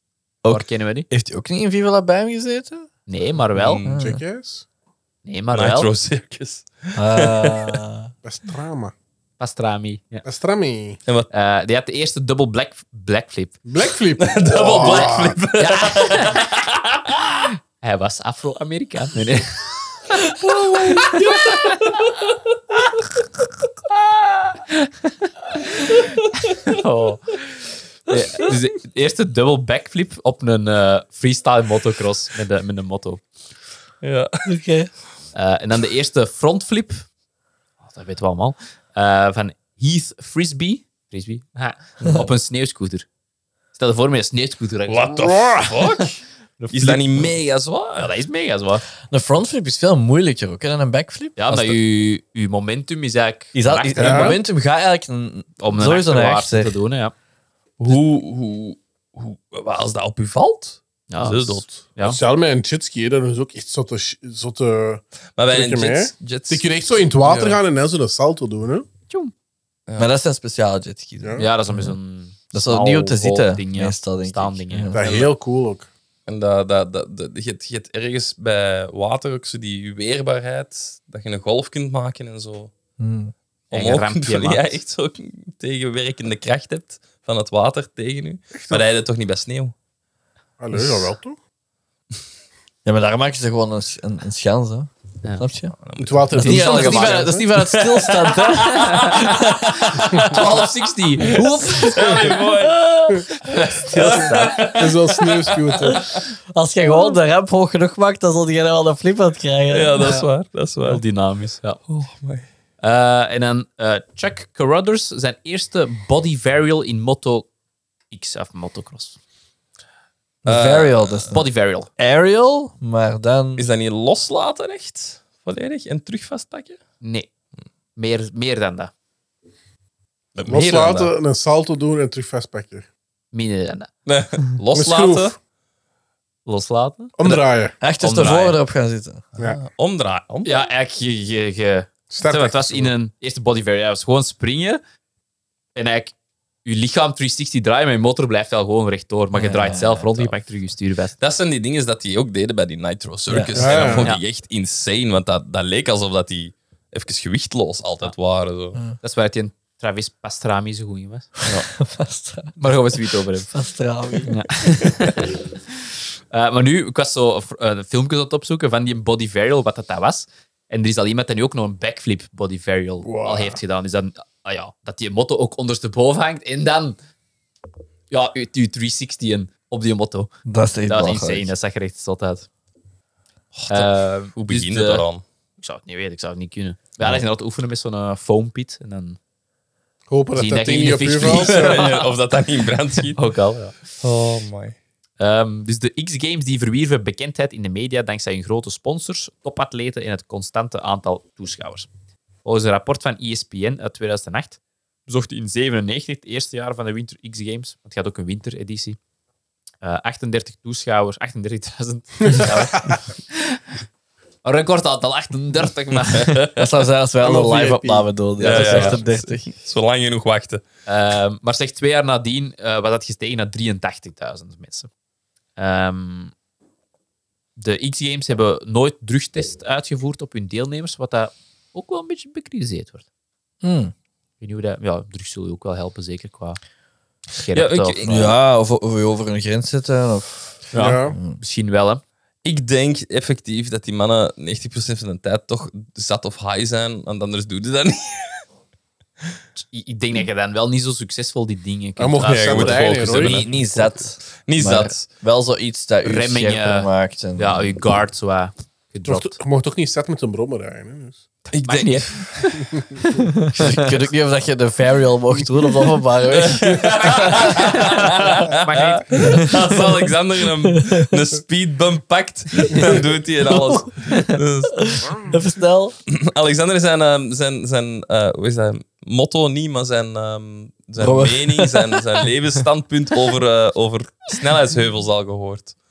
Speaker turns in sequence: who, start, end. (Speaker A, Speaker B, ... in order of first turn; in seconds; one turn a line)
Speaker A: 0.4-2.9
Speaker B: 0.5-1.1
Speaker B: 3.1-3.8
Speaker C: 3.5-4.0
Speaker A: 3.9-4.2
Speaker D: 4.0-4.7
Speaker B: 5.2-5.9
Speaker C: 5.5-7.8
Speaker A: 7.0-8.1
Speaker D: 8.2-8.9
Speaker B: 9.4-10.2
Speaker D: 10.2-11.0
Speaker B: 11.3-13.6
Speaker D: 13.7-15.4
Speaker C: 14.2-17.4
Speaker B: 14.8-16.5
Speaker B: 17.8-21.8
Speaker C: 20.8-22.1
Speaker B: 24.5-27.4
Speaker B: 28.1-33.2
Speaker C: 34.0-34.5
Speaker A: 34.5-34.9
Speaker B: 35.3-37.0
Speaker B: 37.8-43.1
Speaker B: 43.8-46.1
Speaker C: 44.9-46.2
Speaker B: 46.6-47.3
Speaker C: 46.7-48.1
Speaker B: 48.0-48.9
Speaker A: 49.1-51.4
Speaker B: 51.4-54.4
Speaker C: 51.5-51.8
Speaker A: 53.5-56.8
Speaker D: 54.0-54.4
Speaker B: 55.6-57.1
Speaker C: 57.8-61.9
Speaker B: 61.1-62.2
Speaker D: 62.0-68.9
Speaker C: 65.4-67.6
Speaker A: 70.0-72.0
Speaker D: 71.2-71.5
Speaker B: 71.4-75.3
Speaker A: 72.5-75.1
Speaker D: 74.9-75.9
Speaker C: 76.3-82.7
Speaker A: 83.0-83.3
Speaker B: 83.7-84.8
Speaker C: 83.7-89.7
Speaker D: 88.5-88.8
Speaker D: 90.6-91.4
Speaker A: 92.8-95.8
Speaker C: 95.8-96.6
Speaker D: 96.0-97.5
Speaker B: 96.4-97.5
Speaker A: 96.4-100.5
Speaker C: 97.5-99.2
Speaker B: 98.5-102.2
Speaker A: 101.2-104.3
Speaker C: 101.7-103.3
Speaker B: 103.4-104.6
Speaker C: 103.9-106.2
Speaker D: 103.9-106.2
Speaker A: 106.1-110.3
Speaker C: 109.7-111.0
Speaker B: 110.8-111.8
Speaker C: 111.9-112.5
Speaker B: 112.8-117.5
Speaker B: 118.1-119.2
Speaker A: 120.4-123.7
Speaker C: 120.5-121.3
Speaker B: 121.3-121.9
Speaker C: 123.6-126.8
Speaker B: 127.0-127.3
Speaker B: 128.0-128.9
Speaker C: 130.3-131.1
Speaker D: 130.5-132.9
Speaker B: 133.3-133.9
Speaker C: 134.1-135.3
Speaker D: 134.7-135.3
Speaker B: 136.5-137.2
Speaker D: 137.2-137.8
Speaker A: 137.8-139.2
Speaker B: 138.0-138.6
Speaker C: 139.4-140.5
Speaker B: 140.4-144.8
Speaker D: 142.1-142.9
Speaker B: 145.8-151.2
Speaker A: 149.3-150.1
Speaker C: 151.2-158.8
Speaker A: 153.3-153.9
Speaker D: 153.6-154.1
Speaker B: 153.7-154.2
Speaker B: 159.0-161.3
Speaker A: 161.5-162.6
Speaker B: 162.6-163.5
Speaker A: 163.5-164.4
Speaker B: 164.3-177.0
Speaker D: 173.0-173.6
Speaker B: 178.1-180.3
Speaker A: 180.4-181.5
Speaker B: 180.9-182.5
Speaker C: 183.6-185.2
Speaker B: 183.7-185.1
Speaker B: 185.6-189.2
Speaker D: 190.1-191.8
Speaker B: 190.4-192.1
Speaker C: 191.2-193.2
Speaker B: 193.0-193.8
Speaker C: 194.0-194.8
Speaker B: 195.2-201.9
Speaker B: 202.4-209.0
Speaker B: 209.8-213.6
Speaker D: 212.3-213.0
Speaker B: 214.4-216.5
Speaker C: 216.2-216.5
Speaker A: 216.6-219.5
Speaker D: 217.2-218.1
Speaker B: 218.4-219.0
Speaker C: 218.4-220.6
Speaker B: 220.9-224.9
Speaker B: 225.6-226.3
Speaker B: 227.6-233.1
Speaker A: 233.6-233.9
Speaker B: 234.4-236.6
Speaker B: 237.3-238.1
Speaker C: 237.5-238.4
Speaker A: 238.0-241.4
Speaker B: 240.7-242.0
Speaker D: 240.8-241.2
Speaker C: 242.4-248.4
Speaker B: 249.6-253.2
Speaker D: 252.0-253.6
Speaker C: 252.2-255.1
Speaker A: 253.1-257.8
Speaker B: 256.0-259.4
Speaker D: 259.1-261.2
Speaker B: 261.5-263.9
Speaker C: 261.5-262.3
Speaker A: 263.5-267.6
Speaker C: 266.3-275.3
Speaker B: 267.0-269.7
Speaker A: 270.6-271.1
Speaker A: 272.6-273.0
Speaker A: 273.5-274.2
Speaker A: 274.8-276.0
Speaker C: 276.1-285.8
Speaker A: 281.0-282.3